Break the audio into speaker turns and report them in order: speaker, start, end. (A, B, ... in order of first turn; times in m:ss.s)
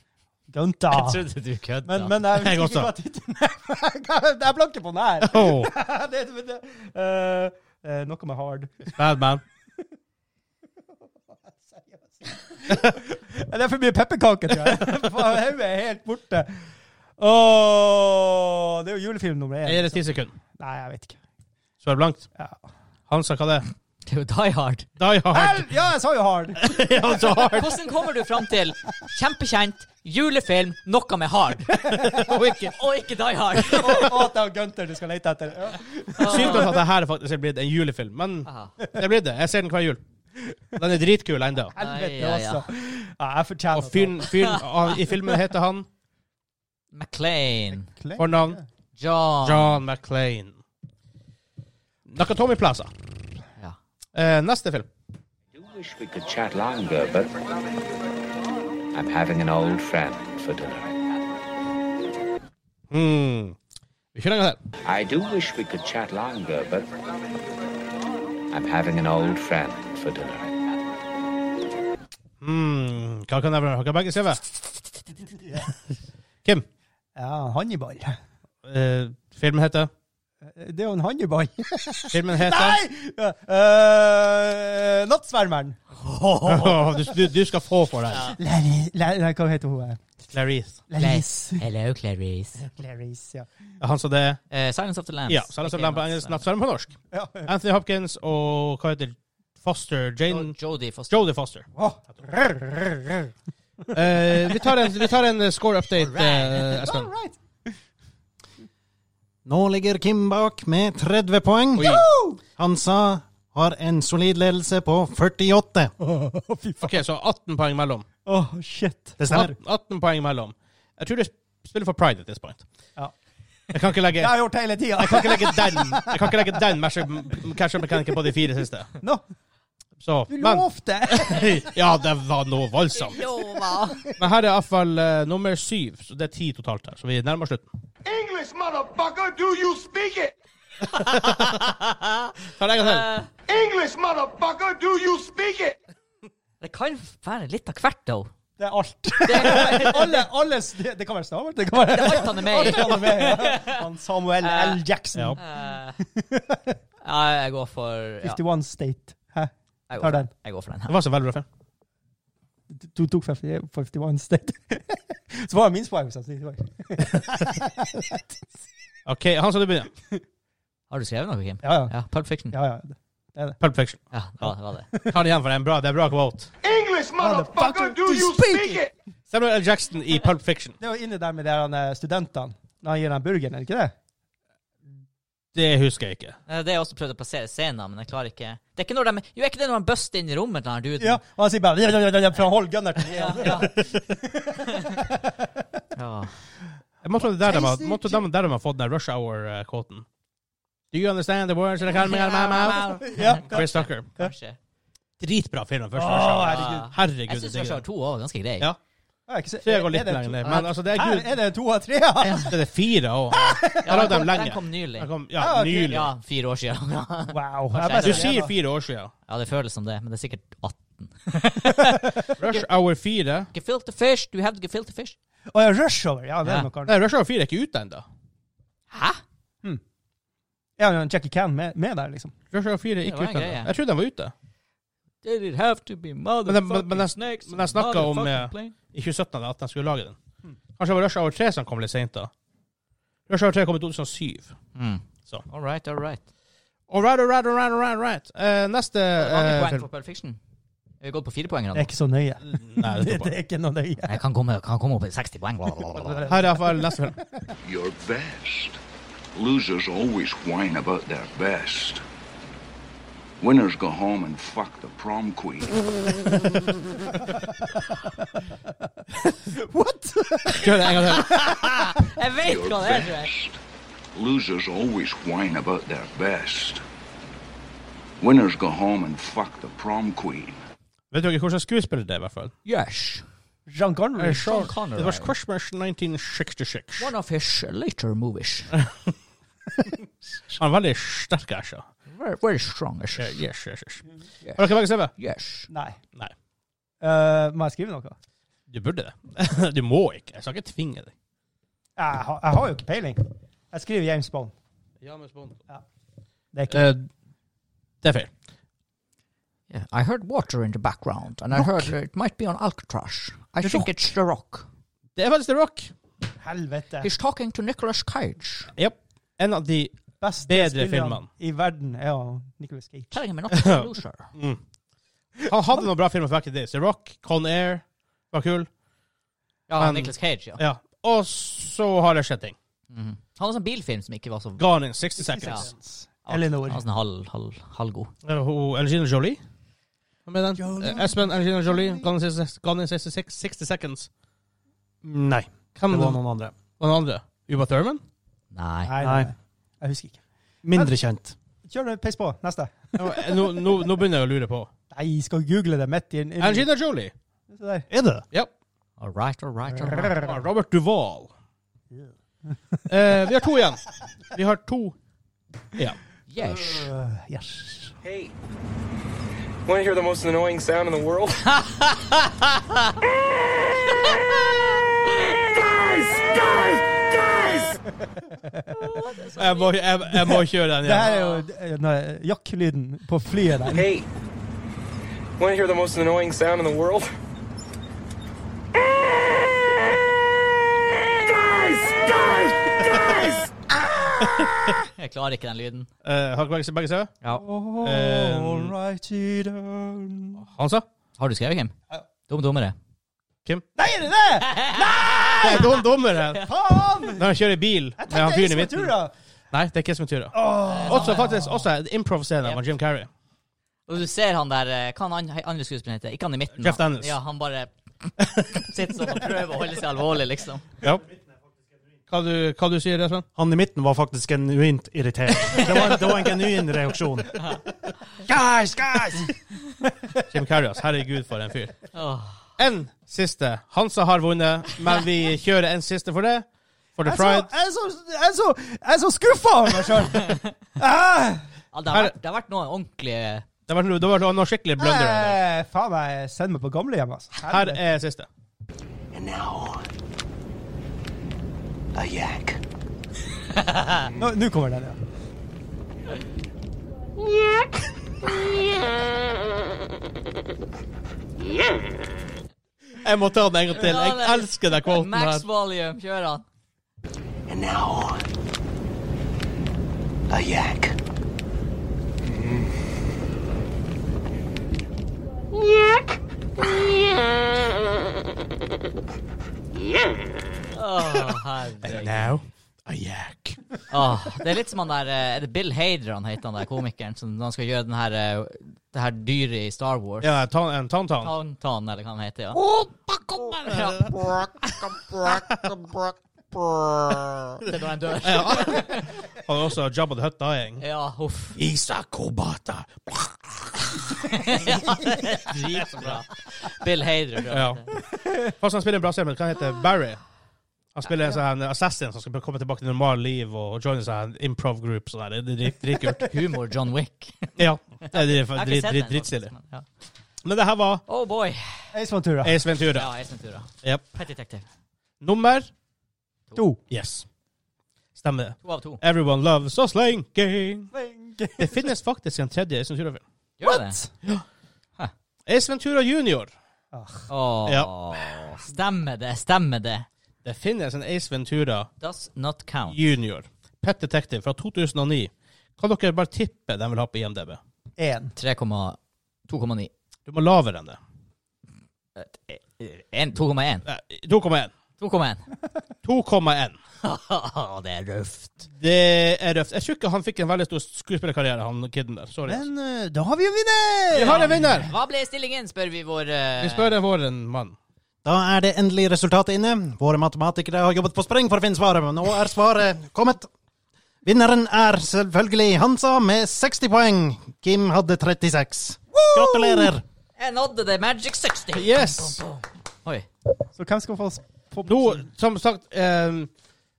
0:00.5-0:01.2 A
0:00.9-0:02.2 B
0:01.8-0:08.7 A
0:02.4-0:02.9 C
0:05.2-0:05.7 C
0:08.8-0:09.4 C
0:11.3-0:21.2 A
0:19.6-0:20.3 C
0:21.8-0:22.3 C
0:22.3-0:22.6 A
0:23.1-0:23.7 C
0:24.0-0:24.9 B
0:25.0-0:25.7 C
0:25.3-0:26.6 A
0:26.6-0:27.8 C
0:27.5-0:34.1 B
0:31.9-0:32.7 C
0:31.9-0:32.2 A
0:33.7-0:36.8 A
0:36.2-0:36.7 B
0:36.2-0:40.0 C
0:38.4-0:38.7 B
0:40.5-0:40.8 A
0:40.8-0:41.7 C
0:41.8-0:44.3 A
0:41.8-0:42.6 B
0:43.7-0:45.9 C
0:46.9-0:47.9 B
0:47.9-0:48.6 A
0:48.2-0:48.6 C
0:49.0-0:49.8 B
0:49.4-0:50.6 C
0:52.1-0:52.9 C
0:54.1-0:54.9 C
0:55.5-0:57.5 D
0:58.9-1:00.9 D
1:02.9-1:03.6 C
1:04.1-1:04.6 C
1:04.8-1:06.9 D
1:08.5-1:10.5 D
1:12.4-1:14.4 C
1:15.3-1:15.6 A
1:17.2-1:18.2 A
1:18.6-1:19.9 C
1:20.4-1:25.8 A
1:22.1-1:22.8 C
1:26.0-1:27.0 B
1:26.4-1:28.3 C
1:28.1-1:28.4 B
1:28.3-1:30.0 A
1:30.3-1:30.8 C
1:30.9-1:31.6 A
1:31.0-1:32.6 B
1:32.6-1:33.5 A
1:33.8-1:34.4 C
1:34.5-1:36.4 B
1:35.3-1:40.6 C
1:37.1-1:37.5 A
1:40.3-1:41.2 B
1:41.1-1:41.6 C
1:41.8-1:43.3 A
1:43.9-1:47.1 C
1:46.0-1:46.8 B
1:46.6-1:47.7 A
1:49.4-1:52.0 E
1:51.8-1:52.0 C
1:51.8-1:52.4 A
1:52.6-1:55.9 E
1:56.0-1:57.0 A
1:56.8-1:58.0 C
1:58.2-1:59.5 A
1:59.2-1:59.5 E
1:59.2-2:02.6 C
2:03.7-2:08.9 C
2:04.2-2:06.6 A
2:10.0-2:13.2 C
2:10.3-2:11.7 A
2:13.0-2:14.1 B
2:14.2-2:17.7 C
2:18.1-2:20.2 F
2:20.8-2:23.3 B
2:20.9-2:21.7 C
2:22.6-2:23.1 C
2:23.5-2:25.7 F
2:26.6-2:28.3 B
2:28.6-2:35.6 A
2:29.2-2:30.3 B
2:31.8-2:33.8 B
2:34.4-2:34.8 B
2:35.1-2:35.4 C
2:35.4-2:36.0 B
2:36.1-2:36.8 A
2:37.0-2:38.4 B
2:38.2-2:40.3 A
2:39.9-2:40.9 B
2:40.9-2:41.4 C
2:42.7-2:48.4 A
2:49.1-2:49.9 C
2:50.9-2:52.6 B
2:51.6-2:52.0 A
2:52.5-2:53.6 A
2:53.6-2:54.0 C
2:54.1-2:54.9 B
2:54.4-2:55.2 A
2:55.1-2:56.5 C
2:56.6-2:58.9 A
2:59.3-3:00.7 C
3:00.8-3:03.9 A
3:05.5-3:06.4 C
3:06.5-3:11.2 B
3:11.0-3:15.8 A
3:13.1-3:13.7 B
3:16.0-3:16.3 B
3:17.0-3:20.0 C
3:17.2-3:18.2 A
3:20.9-3:22.8 C
3:21.8-3:24.6 B
3:23.0-3:23.6 A
3:23.4-3:24.1 C
3:25.2-3:27.8 C
3:25.9-3:26.9 A
3:26.5-3:28.7 B
3:29.3-3:32.6 A
3:29.6-3:31.4 C
3:30.4-3:30.7 B
3:32.2-3:32.5 B
3:32.5-3:36.1 C
3:33.3-3:34.2 A
3:33.8-3:35.1 B
3:35.4-3:36.0 A
3:35.8-3:38.3 B
3:37.3-3:38.5 A
3:37.7-3:39.1 C
3:39.3-3:42.6 B
3:42.4-3:43.5 C
3:43.5-3:45.2 B
3:45.5-3:46.9 A
3:46.4-3:46.7 B
3:46.8-3:48.0 C
3:48.9-3:49.2 B
3:50.8-3:52.3 A
3:52.5-3:54.3 C
3:53.0-3:53.7 B
3:55.2-3:58.7 B
3:56.4-4:00.2 C
4:00.8-4:02.3 C
4:03.3-4:04.6 C
4:04.7-4:06.2 B
4:06.9-4:09.9 C
4:09.2-4:10.4 B
4:11.0-4:11.9 B
4:11.7-4:14.2 A
4:12.5-4:13.3 C
4:14.0-4:16.3 B
4:15.9-4:17.2 A
4:16.3-4:17.2 C
4:17.6-4:18.8 G
4:19.3-4:22.0 G
4:23.4-4:26.3 G
4:29.3-4:32.0 A
4:30.5-4:31.3 C
4:31.1-4:33.3 B
4:32.4-4:33.6 G
4:34.1-4:36.8 G
4:38.2-4:40.6 G
4:41.1-4:42.5 C
4:42.6-4:43.2 B
4:43.7-4:44.7 A
4:44.2-4:47.1 C
4:44.3-4:45.3 B
4:47.0-4:48.7 B
4:50.6-4:51.8 C
4:52.1-4:53.3 B
4:53.2-4:54.0 C
4:54.4-4:55.7 B
4:54.6-4:55.1 C
4:55.7-4:56.0 A
4:57.0-4:58.2 A
4:58.7-5:01.1 C
5:02.0-5:04.5 A
5:05.0-5:05.6 C
5:06.5-5:06.9 A
5:06.7-5:07.1 C
5:08.0-5:08.3 C
5:09.7-5:14.7 B
5:15.2-5:15.9 C
5:16.4-5:17.1 A
5:17.0-5:18.7 B
5:18.8-5:21.3 C
5:20.2-5:23.2 A
5:23.1-5:24.3 B
5:23.5-5:23.8 C
5:24.3-5:24.6 C
5:25.4-5:28.7 C
5:29.7-5:30.6 B
5:29.8-5:32.6 C
5:32.9-5:34.6 B
5:34.6-5:35.7 C
5:35.2-5:36.8 A
5:36.3-5:38.1 B
5:38.2-5:39.4 C
5:40.3-5:44.1 C
5:40.6-5:42.1 A
5:45.0-5:48.0 C
5:45.9-5:46.5 E
5:48.5-5:48.9 B
5:48.8-5:50.9 A
5:49.0-5:49.3 E
5:50.6-5:51.3 E
5:51.6-5:52.7 A
5:53.0-5:54.7 C
5:54.9-5:56.7 A
5:56.4-5:57.1 C
5:57.5-5:57.9 A
5:57.9-5:58.2 E
5:59.0-6:00.3 B
5:59.7-6:00.2 A
6:00.2-6:01.3 C
6:02.9-6:05.0 C
6:06.3-6:06.9 B
6:06.4-6:07.9 A
6:09.7-6:11.3 F
6:11.6-6:12.9 B
6:18.2-6:19.0 A
6:18.8-6:19.7 B
6:19.4-6:21.1 C
6:20.3-6:23.9 A
6:21.0-6:21.5 B
6:25.4-6:27.0 F
6:31.3-6:34.4 A
6:34.9-6:35.9 B
6:36.0-6:37.1 C
6:37.3-6:40.4 A
6:37.8-6:38.7 C
6:40.4-6:40.8 C
6:41.2-6:41.7 B
6:42.3-6:42.7 B
6:43.8-6:45.8 A
6:44.4-6:45.7 B
6:45.4-6:46.5 C
6:46.4-6:47.2 A
6:47.1-6:48.9 C
6:48.0-6:49.1 A
6:49.5-6:53.1 C
6:50.3-6:51.6 A
6:50.7-6:51.6 B
6:53.9-6:57.7 B
6:56.6-6:57.1 C
6:58.5-7:00.6 B
7:02.1-7:03.2 C
7:03.4-7:07.2 E
7:05.5-7:06.1 B
7:08.5-7:09.2 A
7:10.3-7:11.7 C
7:11.9-7:12.4 B
7:12.6-7:17.5 C
7:17.0-7:21.5 A
7:20.2-7:20.5 B
7:21.7-7:23.4 B
7:23.7-7:25.4 C
7:24.8-7:27.8 A
7:27.4-7:28.3 C
7:29.1-7:29.9 H
7:31.9-7:32.6 H
7:34.1-7:35.0 A
7:43.0-7:45.4 C
7:43.7-7:46.4 B
7:47.5-7:48.2 H
7:50.3-7:51.0 H
7:52.2-7:52.7 H
8:00.7-8:02.3 B
8:01.8-8:03.6 C
8:03.9-8:10.4 B
8:10.2-8:11.3 C
8:11.2-8:12.6 B
8:13.1-8:14.0 C
8:13.5-8:15.7 B
8:15.3-8:15.7 C
8:17.0-8:19.2 B
8:18.2-8:20.8 C
8:20.8-8:21.6 B
8:21.6-8:23.7 C
8:24.1-8:27.9 B
8:25.5-8:26.2 C
8:27.5-8:27.8 C
8:28.5-8:30.2 C
8:30.9-8:36.2 C
8:36.2-8:37.5 B
8:37.6-8:39.5 C
8:38.1-8:39.8 B
8:40.4-8:41.0 C
8:41.1-8:41.9 B
8:41.9-8:42.6 A
8:42.4-8:43.1 C
8:42.9-8:44.6 B
8:45.2-8:45.7 C
8:46.9-8:47.2 C
8:48.2-8:50.9 C
8:48.6-8:49.0 B
8:50.9-8:51.9 A
8:51.6-8:53.2 C
8:53.6-8:54.0 B
8:53.6-8:54.1 A
8:55.4-8:56.5 C
8:56.9-8:57.3 A
8:57.3-9:00.1 B
8:57.6-8:57.9 C
9:00.4-9:01.9 C
9:02.0-9:03.0 B
9:02.9-9:07.6 C
9:08.0-9:08.3 A
9:08.4-9:09.0 B
9:09.5-9:09.9 B
9:10.3-9:11.0 C
9:12.2-9:13.8 B
9:13.8-9:14.7 C
9:15.0-9:15.4 B
9:16.0-9:16.8 C
9:17.0-9:18.7 B
9:18.8-9:22.6 C
9:22.4-9:24.6 A
9:24.1-9:24.9 C
9:24.2-9:27.0 B
9:26.6-9:27.8 C
9:28.2-9:33.5 E
9:34.2-9:40.0 E
9:39.1-9:39.9 A
9:40.4-9:42.5 B
9:41.7-9:42.4 C
9:43.7-9:45.2 A
9:44.8-9:46.5 C